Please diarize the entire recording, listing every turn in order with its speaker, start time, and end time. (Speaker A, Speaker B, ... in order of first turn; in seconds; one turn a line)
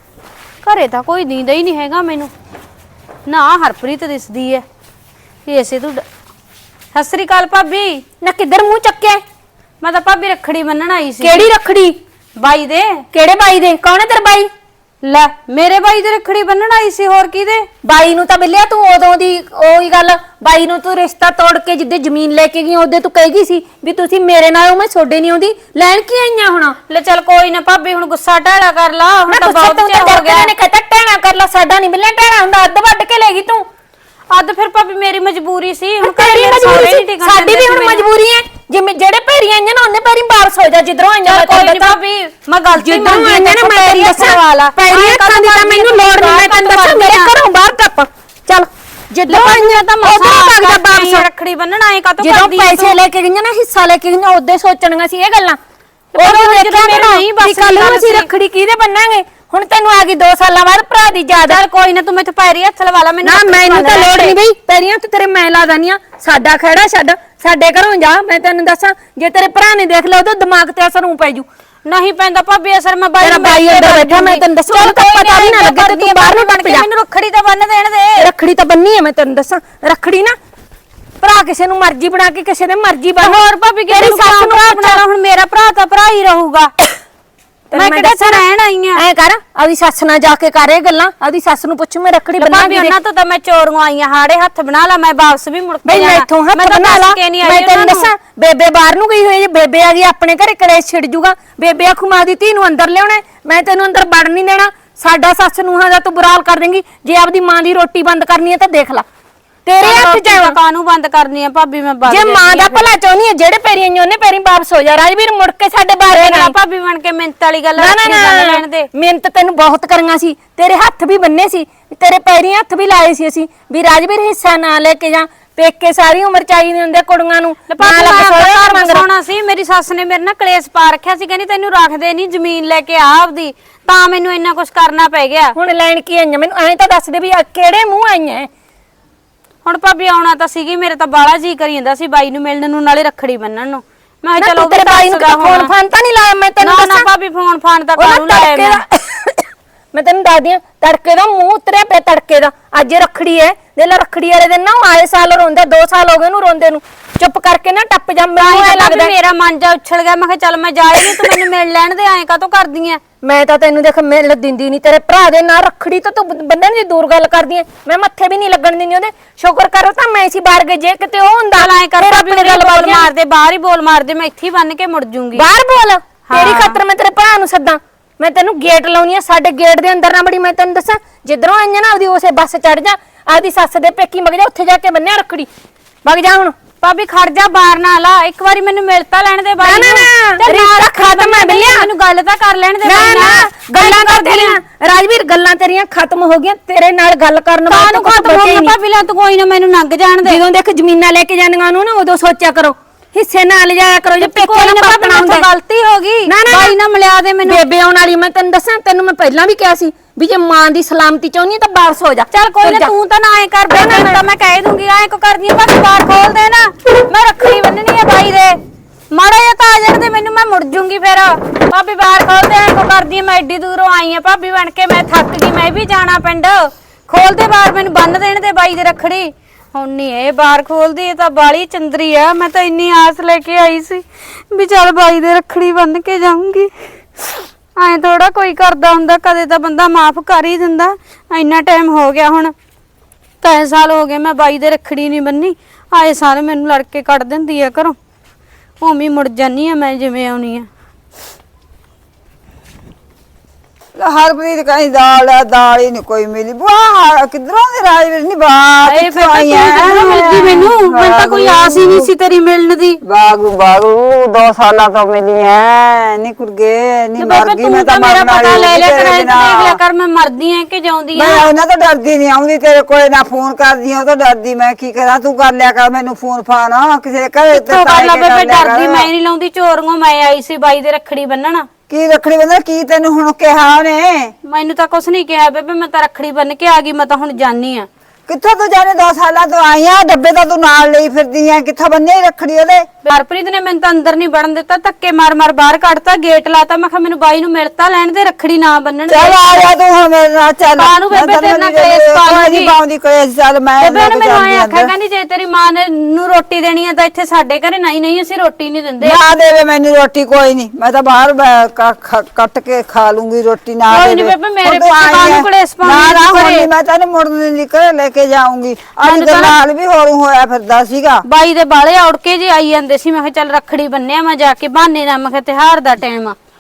Speaker A: 0.6-2.3
Speaker A: 3.3-4.6
Speaker A: 5.5-6.0
Speaker A: 6.9-8.0
Speaker B: 8.2-9.2
Speaker A: 9.8-11.5
Speaker B: 11.2-12.0
Speaker A: 12.4-13.0
Speaker B: 13.1-14.5
Speaker A: 15.0-17.7
Speaker B: 17.8-26.8
Speaker A: 26.9-30.5
Speaker B: 29.3-33.7
Speaker A: 34.3-38.0
Speaker B: 36.0-42.0
Speaker A: 41.2-47.3
Speaker B: 42.8-51.3
Speaker A: 49.3-53.0
Speaker B: 52.2-55.6
Speaker A: 56.1-58.3
Speaker B: 56.2-61.6
Speaker A: 61.4-64.4
Speaker B: 63.2-71.5
Speaker A: 71.9-78.3
Speaker B: 73.2-76.9
Speaker B: 78.2-80.3
Speaker B: 81.2-83.4
Speaker A: 83.2-86.7
Speaker B: 83.9-85.0
Speaker B: 87.7-88.4
Speaker A: 87.7-89.0
Speaker B: 89.0-93.0
Speaker A: 92.4-98.1
Speaker B: 95.8-109.0
Speaker B: 109.7-110.5
Speaker A: 109.8-112.9
Speaker B: 112.1-116.5
Speaker A: 116.1-118.9
Speaker B: 117.8-129.1
Speaker A: 127.7-135.6
Speaker B: 135.6-138.5
Speaker A: 139.6-145.7
Speaker B: 144.4-147.1
Speaker A: 146.6-148.8
Speaker B: 148.0-159.1
Speaker A: 158.4-163.0
Speaker B: 161.0-161.4
Speaker B: 163.2-173.1
Speaker A: 171.5-175.4
Speaker B: 175.3-185.5
Speaker A: 176.3-176.8
Speaker B: 186.0-186.6
Speaker A: 186.8-194.6
Speaker B: 189.6-191.8
Speaker B: 192.8-198.7
Speaker A: 197.7-200.4
Speaker B: 200.2-205.5
Speaker A: 204.2-207.6
Speaker B: 206.3-206.8
Speaker B: 207.4-212.9
Speaker A: 212.3-218.6
Speaker B: 213.7-214.2
Speaker A: 219.1-236.7
Speaker A: 237.8-242.5
Speaker A: 243.4-248.0
Speaker A: 248.8-250.7
Speaker C: 254.0-262.1
Speaker A: 258.9-263.0
Speaker C: 263.1-269.8
Speaker A: 267.2-271.4
Speaker C: 271.1-279.1
Speaker A: 277.5-281.7
Speaker C: 281.9-284.3
Speaker A: 284.4-287.9
Speaker C: 288.3-292.9
Speaker A: 293.0-299.5
Speaker C: 299.1-304.9
Speaker A: 300.8-302.8
Speaker A: 303.8-309.2
Speaker C: 309.0-321.2
Speaker A: 313.9-316.7
Speaker A: 319.0-319.6
Speaker A: 321.2-326.4